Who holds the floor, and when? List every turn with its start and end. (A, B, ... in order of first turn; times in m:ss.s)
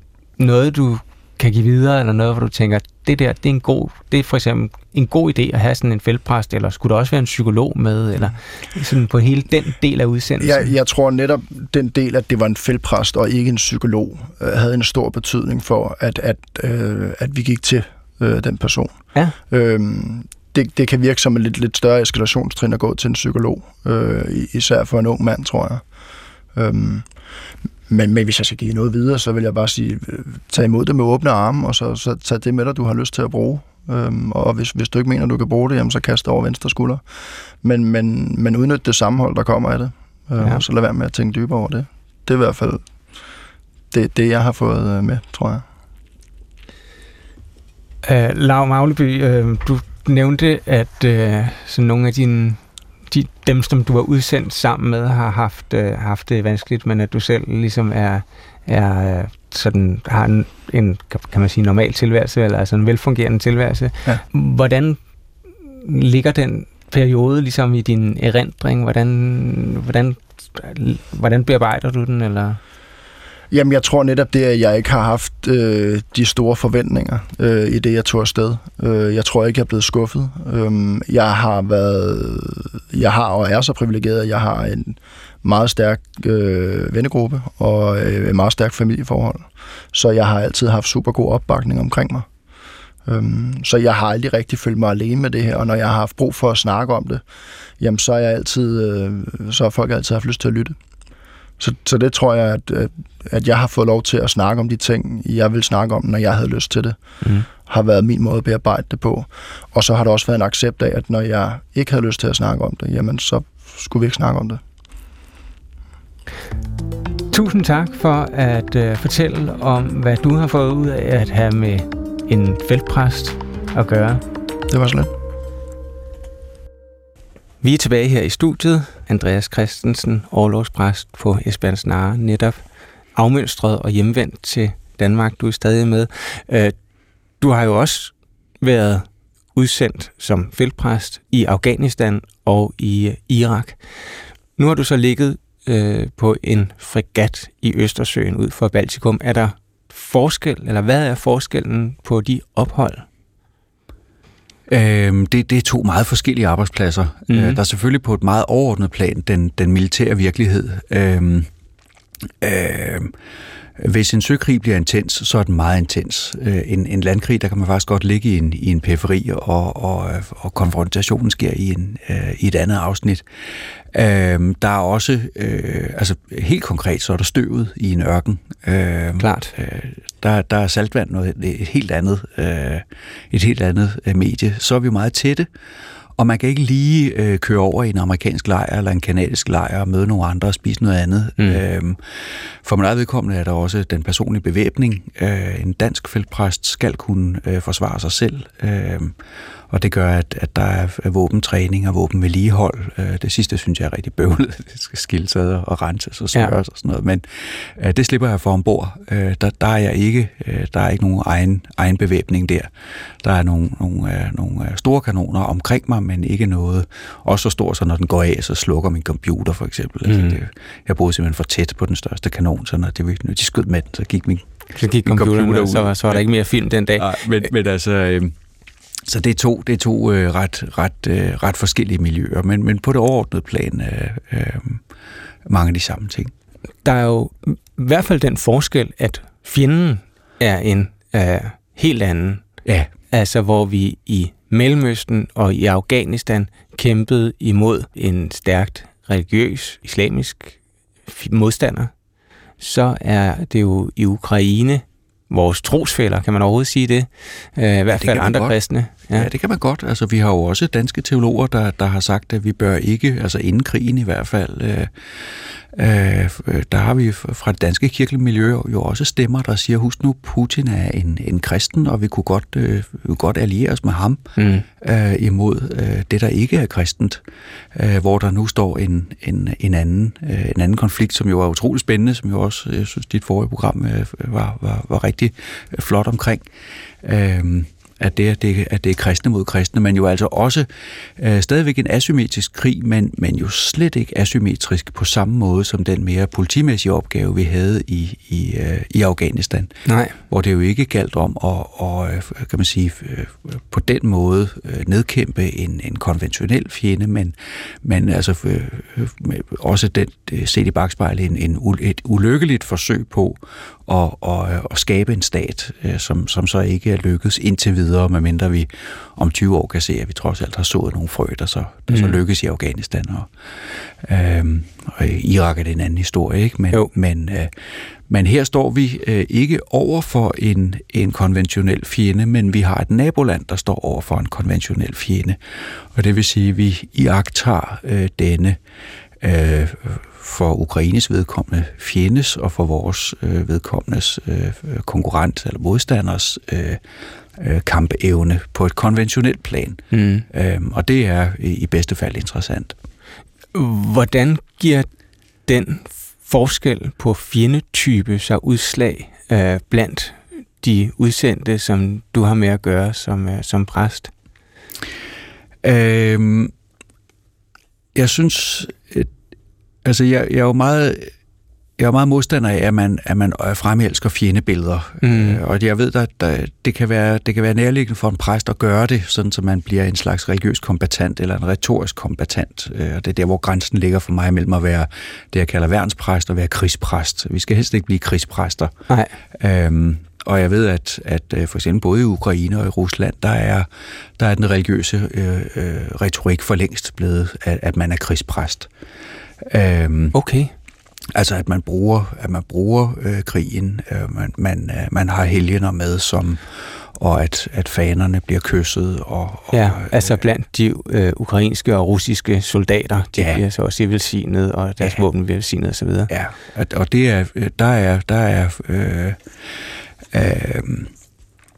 0:00.4-0:10.7 A
0:10.4-0:18.9 B
0:19.5-0:25.8 B
0:26.5-0:27.0 B
0:27.9-0:37.0 B
0:37.6-0:42.8 B
0:43.9-0:45.6 B
0:48.0-1:05.0 A
1:05.6-1:12.6 A
1:13.5-1:32.3 B
1:33.0-1:37.2 B
1:37.8-1:40.8 B
1:41.6-1:47.0 B
1:47.2-1:47.5 A
1:47.5-1:54.6 B
1:57.3-2:04.2 A
2:04.7-2:05.1 B
2:07.6-2:12.6 A
2:13.1-2:16.7 A
2:17.4-2:23.8 A
2:24.6-2:33.0 A
2:34.7-2:41.5 C
2:37.3-2:37.6 A
2:42.4-2:43.1 C
2:43.8-3:05.5 C
2:59.2-2:59.5 A
3:06.2-3:19.2 C
3:19.7-3:44.5 C
3:40.1-3:40.4 A
3:44.7-3:47.4 A
3:45.0-3:46.2 C
3:47.0-3:48.3 C
3:49.0-3:54.8 C
3:55.4-3:56.3 C
3:56.8-4:02.4 A
4:02.6-4:02.9 C
4:03.1-4:11.9 A
4:12.6-4:19.3 A
4:17.9-4:37.2 C
4:34.4-4:34.7 A
4:37.7-4:46.4 C
4:47.0-5:27.5 C
4:59.8-5:00.1 A
5:21.9-5:22.2 A
5:28.1-5:38.6 C
5:39.2-5:46.8 C
5:47.4-5:52.7 C
5:49.9-5:50.2 A
5:53.5-5:54.9 A
5:55.4-6:04.1 A
6:05.6-6:06.5 C
6:07.9-6:09.1 C
6:09.8-6:11.1 C
6:11.8-6:28.7 C
6:15.0-6:15.4 A
6:28.9-6:29.1 A
6:29.3-6:38.7 C
6:39.4-6:40.2 C
6:40.1-6:40.5 A
6:41.1-6:50.2 C
6:49.5-6:56.1 A
6:53.2-6:53.4 C
6:56.1-6:59.2 C
7:00.1-7:00.9 C